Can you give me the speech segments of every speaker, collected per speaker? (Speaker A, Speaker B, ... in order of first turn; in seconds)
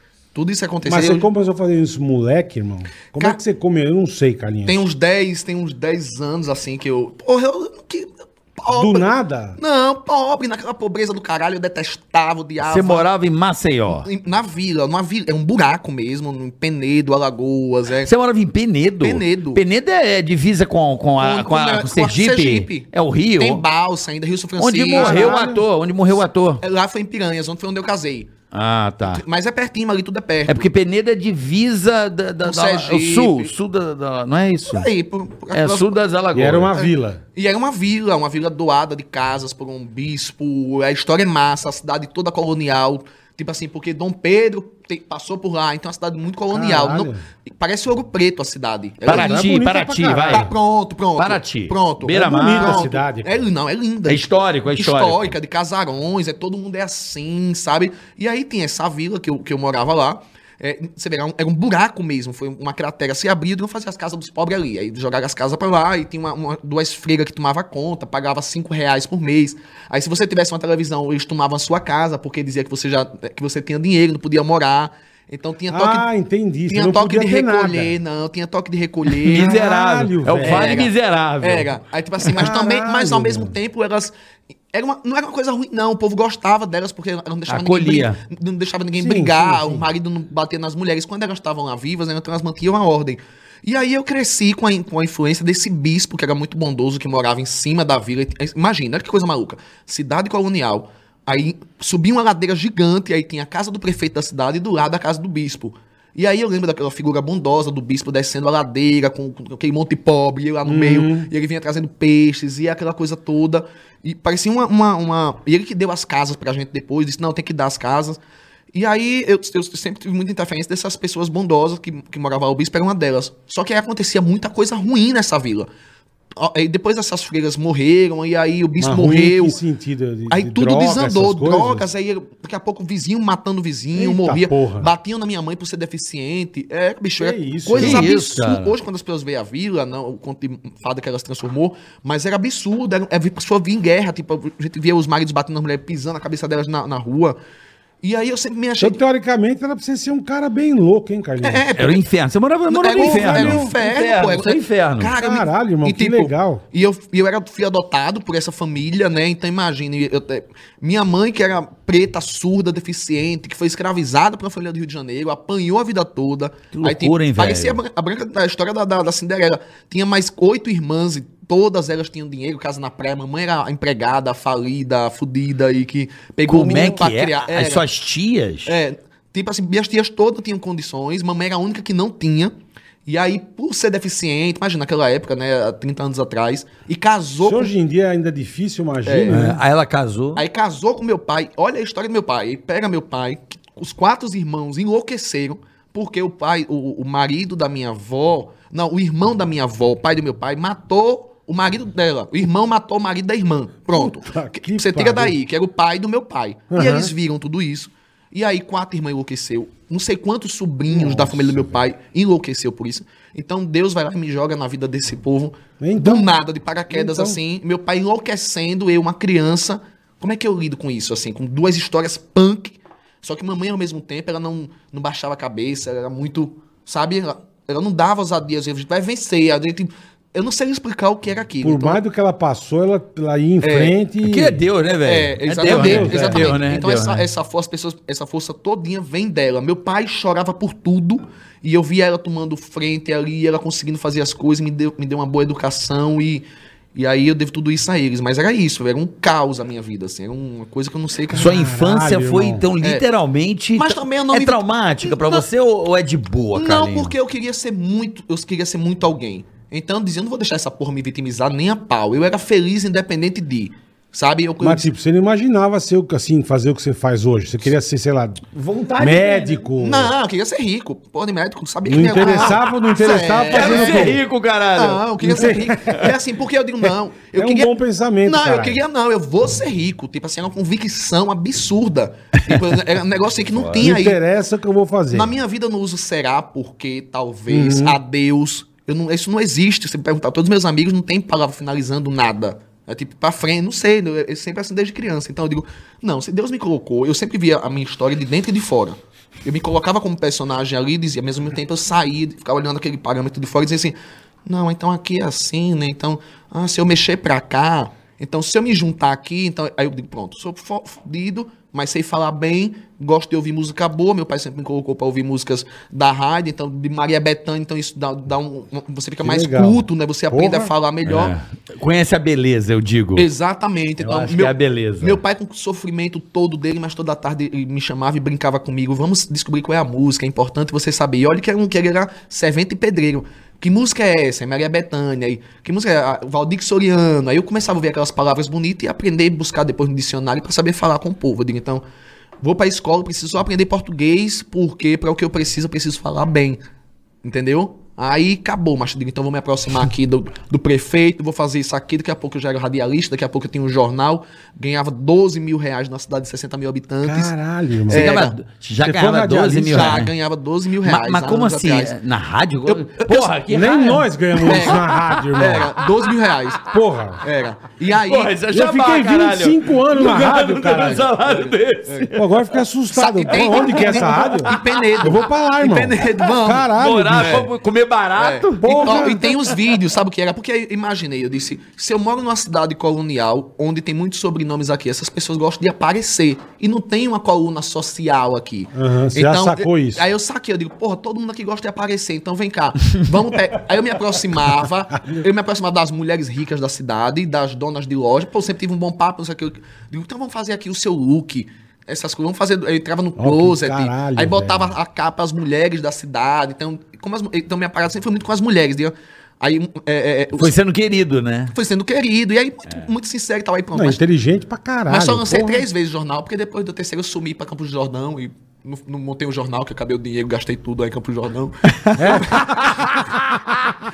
Speaker A: 0.3-1.3, 4.7-9.1, 9.6-13.1, 14.0-18.1, 19.0-19.6, 21.2-25.3, 26.6-28.3, 29.1-30.7, 32.4-33.5, 34.7-36.0, 36.8-49.5, 50.2-76.1, 76.7-79.6, 80.4-84.1, 84.7-118.2, 118.7-125.7, 126.4-129.6, 130.3-147.4, 148.0-149.0, 151.4-152.1, 152.7-177.8, 178.7-182.5, 183.1-187.7, 189.1-189.4, 190.3-232.0, 233.6-233.9, 235.0-251.5, 253.8-255.5, 256.6-264.9, 269.8-274.2, 274.8-284.2, 285.1-321.4, 323.2-341.8, 342.4-346.6, 347.2-357.3, 357.9-358.4, 359.7-362.0, 362.7-363.4, 364.4-366.6, 367.2-368.4, 372.9-377.5, 378.2-410.5, 411.5-414.0, 414.9-422.7
Speaker B: 0.9-4.8, 8.7-9.6, 24.9-25.7, 36.3-37.2, 46.5-47.2, 49.1-50.5, 52.1-53.5, 75.7-78.0, 79.3-80.9, 82.3-83.6, 89.0-89.9, 110.7-111.3, 128.8-131.9, 133.9-134.9, 137.2-138.1, 148.8-151.7, 152.9-153.7, 155.2-156.6, 187.4-189.6, 203.9-205.3, 206.7-207.1, 210.9-211.8, 215.8-216.3, 216.9-217.4, 231.6-234.6, 235.6-236.6, 251.3-252.7, 264.6-268.4, 269.0-270.1, 271.9-274.2, 275.3-276.0, 277.4-278.8, 283.8-285.3, 287.5-288.0, 319.2-320.7, 357.0-358.2, 358.8-360.0, 363.5-365.7, 366.7-367.2, 368.5-371.1, 372.1-377.5, 378.6-379.2, 388.7-390.1, 403.2-404.8, 413.7-415.7, 422.0-422.4
Speaker C: 12.6-14.1, 18.0-23.6, 24.6-26.6, 28.5-29.2, 30.5-34.9, 35.5-36.7, 49.1-50.5, 51.2-52.9, 54.1-55.3, 79.2-81.7, 87.5-88.2, 137.8-138.7, 151.8-155.1, 166.7-167.8, 176.5-178.8, 189.3-190.4, 234.2-237.3, 251.3-257.1, 268.6-269.7, 272.1-272.6, 273.5-276.1, 283.5-283.8, 321.1-323.3, 324.0-325.2, 357.9-360.1, 360.8-365.2, 367.9-372.5, 373.3-374.8, 376.8-379.5, 410.4-411.6, 421.7-423.4